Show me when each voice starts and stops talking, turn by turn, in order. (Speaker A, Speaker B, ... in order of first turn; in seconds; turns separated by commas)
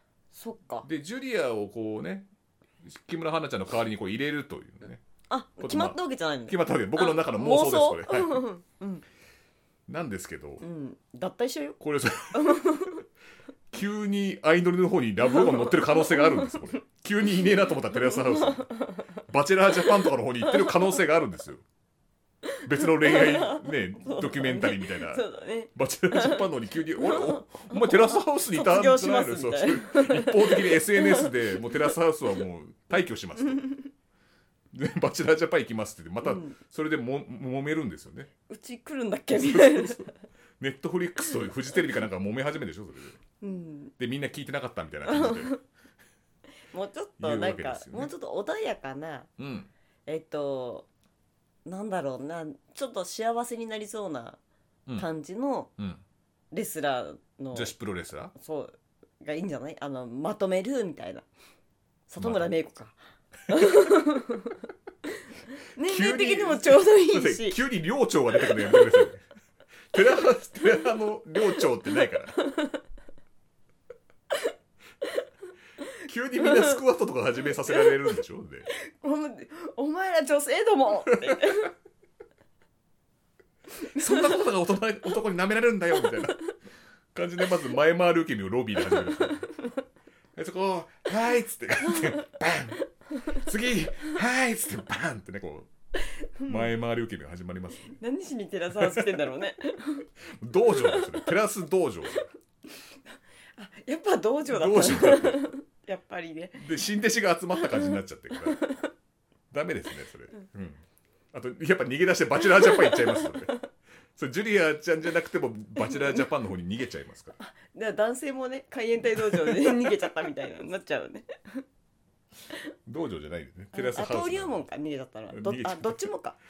Speaker A: 0.3-0.9, Speaker B: 0.8-2.3, Speaker B: 2.8-5.0, Speaker A: 5.3-9.0, Speaker B: 5.6-8.4, Speaker B: 9.9-10.6, Speaker A: 10.6-11.8, Speaker B: 11.8-12.9, Speaker A: 12.3-13.0, Speaker B: 13.7-21.6, Speaker A: 15.2-16.6, Speaker A: 18.0-19.1, Speaker A: 20.4-20.9, Speaker A: 22.4-31.9, Speaker B: 22.6-33.7, Speaker B: 34.7-38.3, Speaker A: 36.2-36.5, Speaker A: 38.5-40.1, Speaker B: 39.3-40.0, Speaker B: 40.6-43.2, Speaker A: 43.4-43.9, Speaker B: 44.0-45.6, Speaker A: 45.1-45.6, Speaker A: 46.7-49.3, Speaker B: 47.2-48.1, Speaker B: 49.4-49.7, Speaker A: 50.0-50.9, Speaker A: 51.6-54.4, Speaker A: 55.0-55.7, Speaker B: 55.8-56.0, Speaker A: 56.5-57.7, Speaker B: 57.5-58.3, Speaker A: 58.3-61.2, Speaker A: 62.1-63.0, Speaker B: 62.2-62.5, Speaker A: 63.5-64.6, Speaker A: 65.7-67.6, Speaker B: 65.8-69.2, Speaker A: 68.4-69.0, Speaker B: 69.9-72.4, Speaker A: 71.5-72.8, Speaker B: 76.0-78.7, Speaker A: 76.4-76.8, Speaker A: 77.7-78.0, Speaker A: 78.7-81.7, Speaker B: 81.2-81.5, Speaker B: 83.8-86.5, Speaker A: 83.9-84.4, Speaker B: 87.1-89.5, Speaker A: 88.9-89.6, Speaker B: 90.3-95.7, Speaker A: 96.4-96.7, Speaker B: 96.5-98.0, Speaker A: 97.9-100.1, Speaker B: 98.7-99.2, Speaker B: 100.3-102.3, Speaker A: 100.7-101.3, Speaker A: 103.5-106.6, Speaker B: 104.5-105.5, Speaker B: 106.5-108.6, Speaker A: 107.6-107.9, Speaker A: 108.5-108.9, Speaker B: 109.5-113.6, Speaker A: 112.6-113.6, Speaker B: 114.1-117.3, Speaker A: 115.8-116.2, Speaker A: 117.4-121.6, Speaker B: 119.3-119.7, Speaker B: 122.8-124.6, Speaker A: 123.7-126.4, Speaker B: 125.3-126.0